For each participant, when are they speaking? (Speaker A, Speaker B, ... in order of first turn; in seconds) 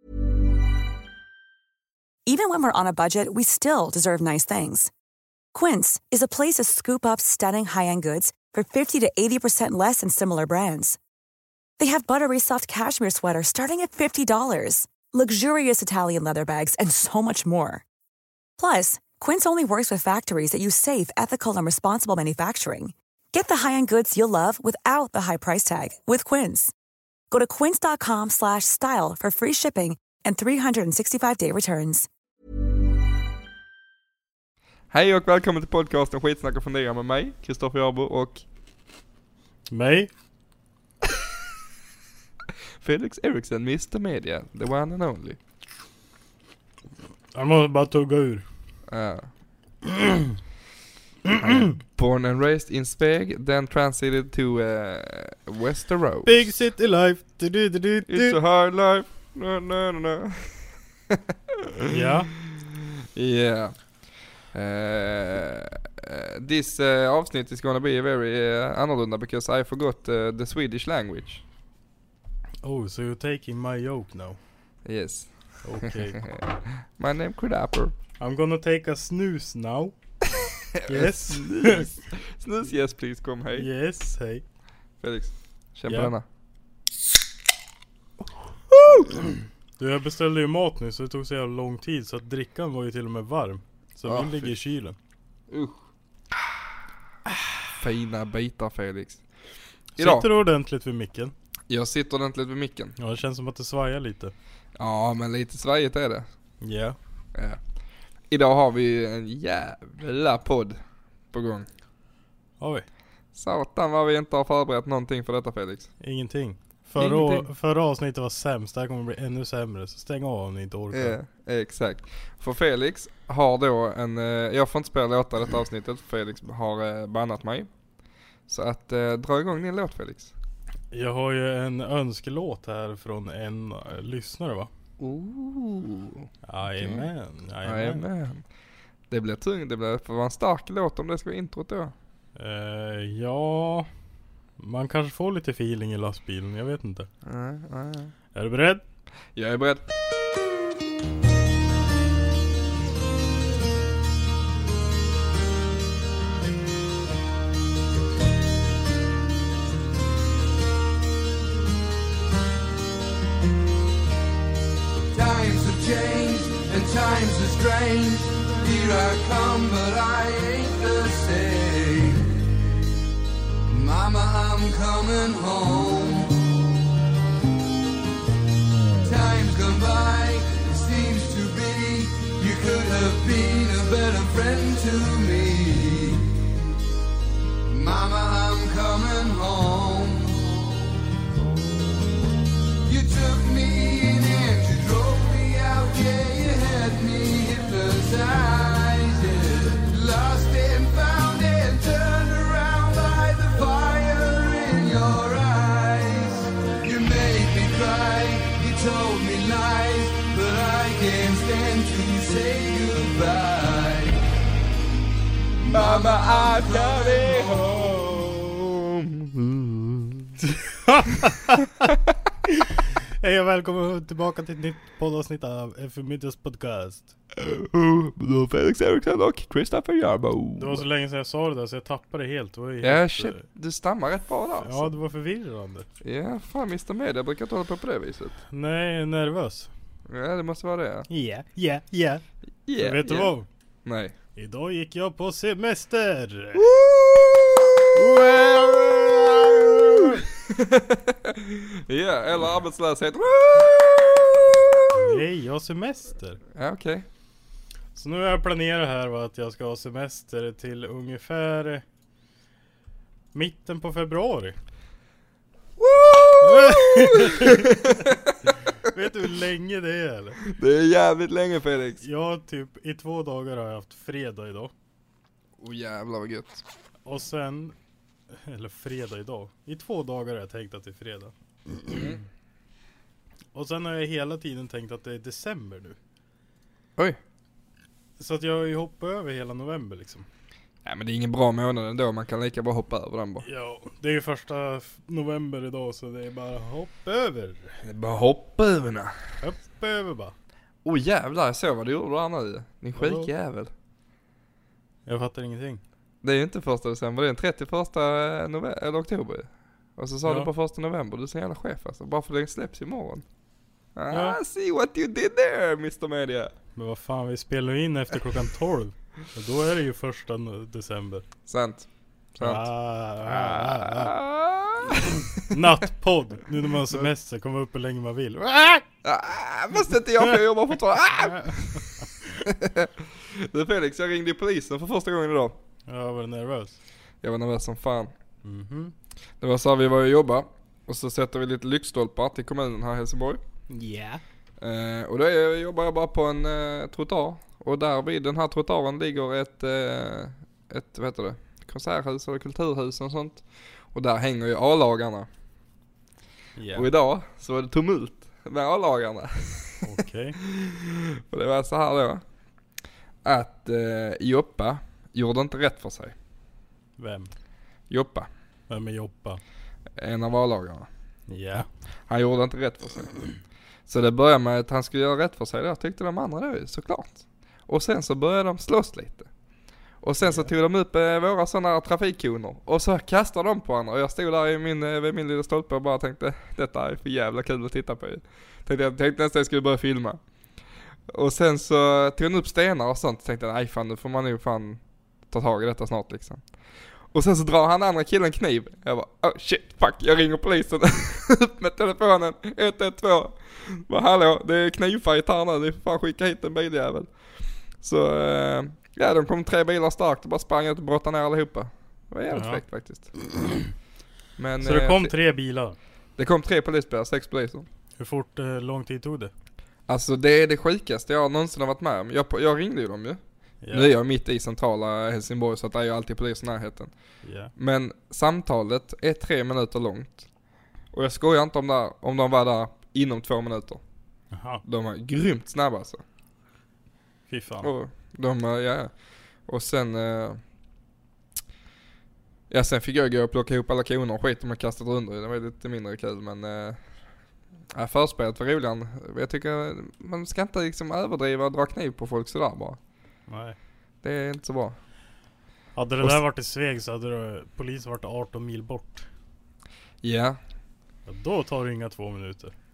Speaker A: 2.2-4.9, 5.5-11.0, 11.8-17.8, 18.6-26.7, 27.3-32.1
Speaker B: 34.9-38.4, 42.8-45.4, 48.9-49.3, 51.4-56.5, 58.1-61.9, 62.4-63.7, 64.5-71.4, 74.8-75.3, 75.8-77.9, 80.7-83.7, 85.0-86.2, 88.7-89.1, 94.0-94.5, 95.5-95.8, 97.8-99.2, 100.0-100.3, 101.7-102.9, 104.8-106.2, 107.3-107.6, 108.3-110.8, 111.3-111.7, 113.3-115.9, 117.0-117.5, 120.9-127.7, 128.5-130.3, 135.0-137.1, 137.6-138.4, 139.1-141.9, 147.2-148.1, 149.3-149.8, 215.7-219.6, 227.4-230.8, 232.8-234.9, 236.0-238.4, 240.1-241.1, 242.7-243.3, 243.8-244.1, 246.6-247.9, 250.4-254.8, 256.5-257.1, 265.8-268.3, 270.4-272.0, 275.6-276.6, 281.9-282.2, 290.8-293.4, 297.8-299.1, 300.8-303.7, 306.2-313.2, 313.9-316.5, 321.5-322.7, 323.2-325.5, 329.0-335.6, 337.2-338.1, 339.4-343.4, 344.6-353.4, 353.9-355.3, 356.7-359.9, 360.4-362.2, 363.2-366.1, 367.9-368.3, 370.0-370.9, 372.1-373.2, 373.9-379.3, 380.0-390.2, 391.1-396.4, 397.1-407.1, 407.8-413.1, 414.4-415.1, 416.2-417.6, 419.9-423.2, 423.7-426.9, 427.6-430.2, 430.9-433.8, 434.6-436.0, 437.6-438.9, 439.5-440.4, 442.5-446.8, 447.7-452.8, 454.0-454.8, 460.0-460.4
Speaker C: 39.7-40.1, 47.3-48.4, 51.3-51.7, 56.2-58.4, 61.8-62.3, 72.6-74.4, 75.6-76.2, 78.2-79.9, 80.9-81.9, 83.5-84.4, 85.9-86.1, 89.8-95.0, 100.0-101.3, 103.0-104.3, 106.6-107.0, 112.6-112.8, 116.0-121.2, 130.9-134.7, 136.4-138.0, 142.3-143.9, 144.6-147.1, 148.3-148.8, 220.4-221.9, 223.2-227.1, 230.6-233.4, 234.6-235.9, 238.5-239.7, 241.1-242.2, 242.8-243.5, 244.3-246.6, 247.9-250.2, 254.9-256.4, 257.9-261.8, 263.3-264.6, 266.4-267.8, 268.9-270.4, 272.0-274.7, 277.0-277.7, 278.3-281.3, 283.5-286.0, 288.2-290.3, 293.4-297.8, 299.4-300.3, 302.9-303.3, 305.1-305.8, 310.2-310.5, 314.1-314.4, 316.8-321.2, 322.4-324.1, 325.5-328.8, 331.3-332.1, 335.9-336.8, 338.4-338.9, 343.7-344.2, 356.6-356.9, 359.8-360.4, 367.0-367.3, 368.7-369.4, 371.3-371.7, 380.2-380.5, 412.3-412.6, 414.6-415.8, 418.0-419.3, 423.6-423.9, 427.2-427.5, 434.3-434.6, 437.3-437.7, 453.3-453.6, 455.8-459.1, 461.1-462.5
Speaker D: 165.1-172.4, 173.7-176.5, 179.0-186.4, 187.7-190.8, 192.8-214.2, 215.6-217.8